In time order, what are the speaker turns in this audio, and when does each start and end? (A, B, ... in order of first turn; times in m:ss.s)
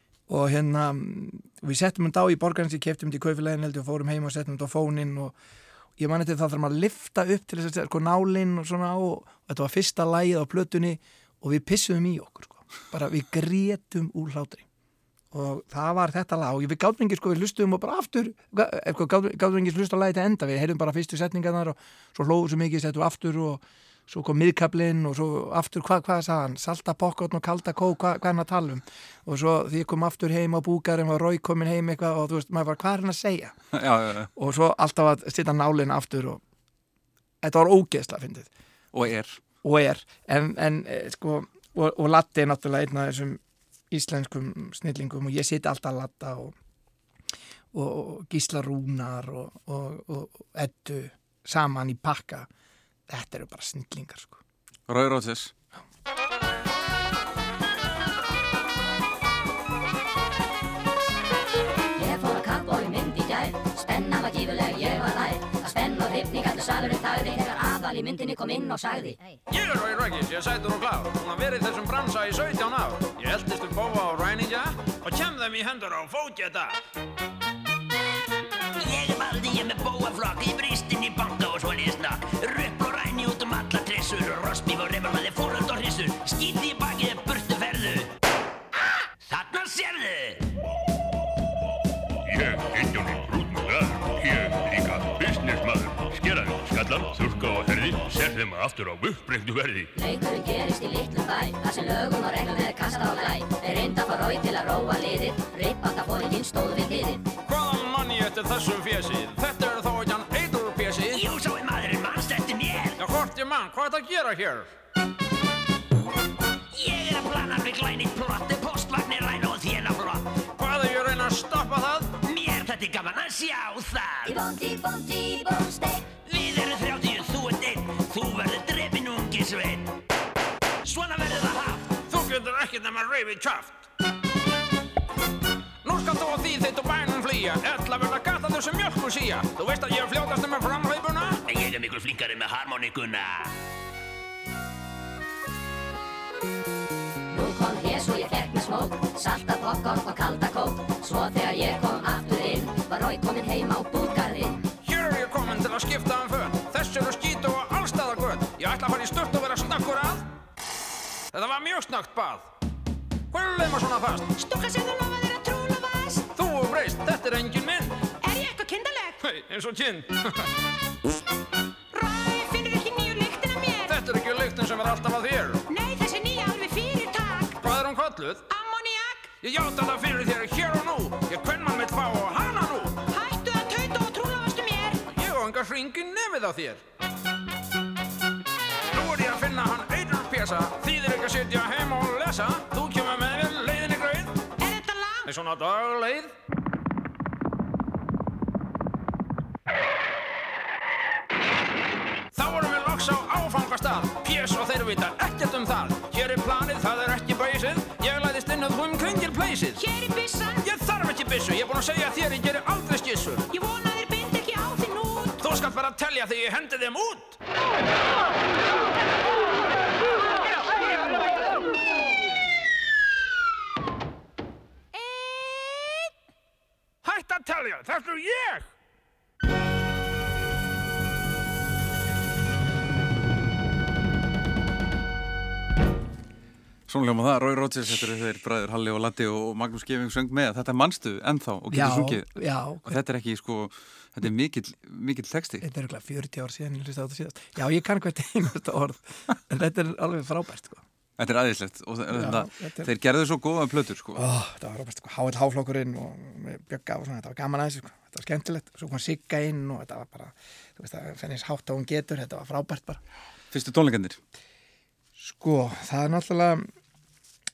0:00.3-0:05.4 A
0:06.0-0:14.7 A
0:15.3-0:33.6 A
0:33.7-0:34.3 B
0:34.4-0:36.4 A
0:37.4-0:38.5 A
0:38.9-0:39.4 B
0:39.6-0:43.4 A
0:43.9-0:46.6 A
0:47.7-0:52.5 A
0:53.1-0:54.4 A
0:54.9-0:55.5 B
1:02.0-1:09.2 C
1:09.5-1:16.8 D
1:18.8-1:28.1 E
1:29.2-1:30.5 E
1:32.3-1:39.9 F
1:40.0-1:47.2 C
1:47.5-1:51.2 D
1:51.1-1:53.0 E
1:53.0-1:54.7 D
1:56.7-2:00.3 E
2:00.6-2:02.2 D
2:02.2-2:04.4 E
2:04.3-2:06.1 C
2:06.2-2:09.9 E
2:10.9-2:11.9 E
2:12.0-2:13.8 D
2:15.8-2:21.4 D
2:21.5-2:23.5 E
2:27.3-2:34.6 C
2:34.8-2:40.2 D
2:41.3-2:42.5 D
2:43.3-2:44.3 D
2:44.4-2:46.3 G
2:46.4-2:48.0 D
2:48.2-2:49.2 G
2:49.2-2:50.4 D
2:51.9-2:54.0 G
2:53.9-2:55.6 D
2:55.7-2:57.6 G
2:57.6-2:58.4 D
2:58.5-2:59.3 G
2:59.4-3:03.0 D
3:03.1-3:05.0 G
3:05.1-3:06.8 D
3:08.9-3:14.4 D
3:14.6-3:15.3 G
3:15.2-3:16.3 D
3:22.3-3:29.8 D
3:29.8-3:30.6 G
3:30.6-3:33.5 D
3:33.5-3:35.4 G
3:35.4-3:37.4 D
3:45.1-3:46.0 G
3:47.0-3:48.7 D
3:56.9-4:02.3 B
4:01.7-4:03.0 A
4:02.8-4:05.6 B
4:05.6-4:10.8 A
4:11.2-4:14.3 B
4:12.1-4:12.9 A
4:14.2-4:23.0 A
4:23.5-4:24.2 B
4:25.2-4:26.7 A